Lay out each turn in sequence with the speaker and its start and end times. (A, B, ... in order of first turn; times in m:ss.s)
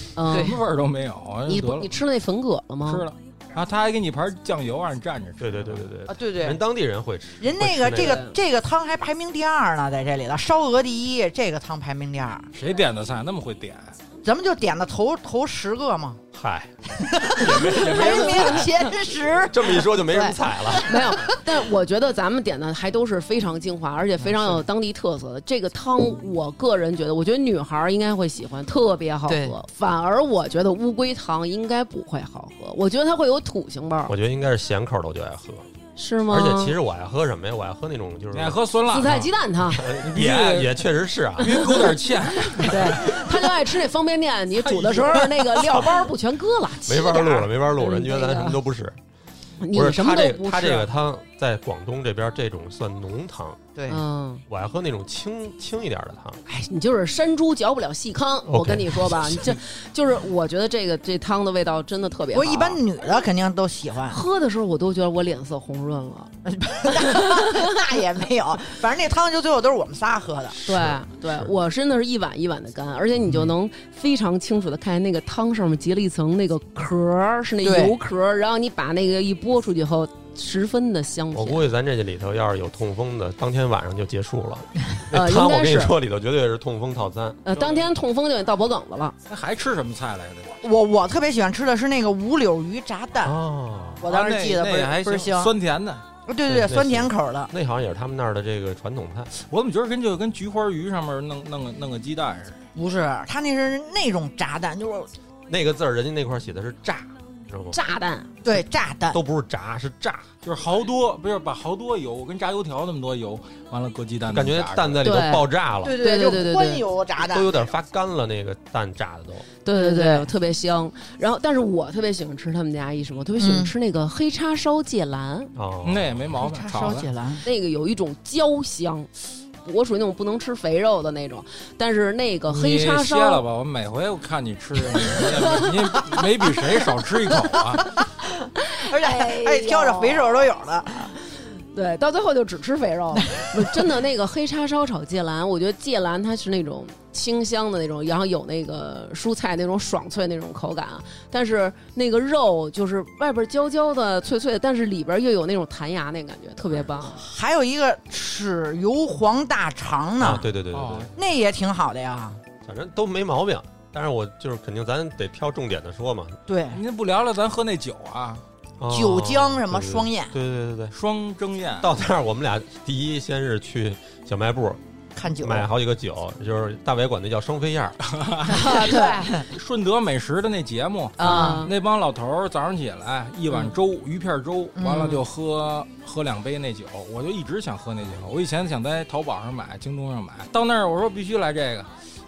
0:00.2-0:00.5 A
0:00.2-0:01.9 B
0:00.3-0:00.6 C
0:01.5-0:03.0 A
0:02.8-0:05.9 B
0:05.4-0:08.2 D
0:06.1-0:06.6 C
0:07.4-0:12.5 C
0:08.0-0:08.3 A
0:12.5-0:13.9 B
0:14.2-0:16.2 C
0:16.3-0:16.7 D
0:17.0-0:19.8 C
0:17.4-0:18.7 D
0:17.9-0:18.6 A
0:19.4-0:21.0 D
0:20.1-0:34.1 A
0:24.2-0:24.6 C
0:29.3-0:29.5 C
0:34.1-0:35.7 D
0:36.0-0:36.7 A
0:36.3-0:38.6 D
0:38.3-0:39.3 B
0:38.9-0:39.8 A
0:39.7-0:41.9 D
0:40.0-0:43.4 B
0:42.6-0:48.6 A
0:44.6-0:45.4 B
0:46.9-0:49.0 D
0:49.6-0:50.9 A
0:49.7-0:53.6 D
0:53.8-0:54.0 C
0:53.9-0:54.4 A
0:54.5-0:56.4 D
0:56.5-1:02.8 A
0:58.4-0:59.6 D
1:02.3-1:04.2 C
1:04.1-1:06.3 A
1:06.4-1:10.6 C
1:07.1-1:07.4 A
1:10.5-1:11.5 D
1:10.6-1:21.7 A
1:17.6-1:18.0 C
1:21.3-1:27.4 D
1:25.1-1:25.9 A
1:27.4-1:29.2 A
1:27.5-1:27.9 B
1:29.3-1:30.5 B
1:30.6-1:33.3 C
1:33.2-1:34.0 D
1:33.9-1:36.0 B
1:34.0-1:35.5 C
1:36.3-1:37.5 C
1:36.4-1:39.3 D
1:39.3-1:42.6 B
1:42.7-1:45.1 C
1:45.5-1:47.8 D
1:47.7-1:48.3 A
1:48.4-1:49.2 C
1:49.1-1:50.3 D
1:50.4-1:55.0 B
1:54.2-1:56.0 D
1:55.0-1:56.8 A
1:55.8-1:57.5 C
1:57.2-1:59.4 D
1:59.6-2:05.5 A
1:59.8-2:00.3 C
2:03.4-2:03.7 C
2:05.5-2:06.2 D
2:05.8-2:07.1 B
2:06.4-2:07.4 C
2:07.4-2:09.1 A
2:09.6-2:13.4 A
2:12.5-2:17.9 B
2:15.2-2:15.6 A
2:18.7-2:20.5 A
2:18.9-2:21.1 C
2:21.7-2:37.2 A
2:37.1-2:40.5 C
2:40.2-2:41.1 D
2:40.7-2:41.1 B
2:41.2-2:42.4 C
2:42.6-2:46.4 D
2:46.5-2:46.8 C
2:46.7-2:48.4 B
2:48.8-2:50.9 D
2:48.9-2:50.3 C
2:50.9-2:51.9 B
2:51.8-2:54.8 D
2:55.2-2:55.7 C
2:55.4-2:58.0 D
2:58.1-2:59.0 B
2:58.5-2:59.4 A
2:58.6-2:59.4 C
2:59.5-3:11.9 B
3:01.2-3:01.6 C
3:01.2-3:01.7 A
3:04.8-3:05.2 C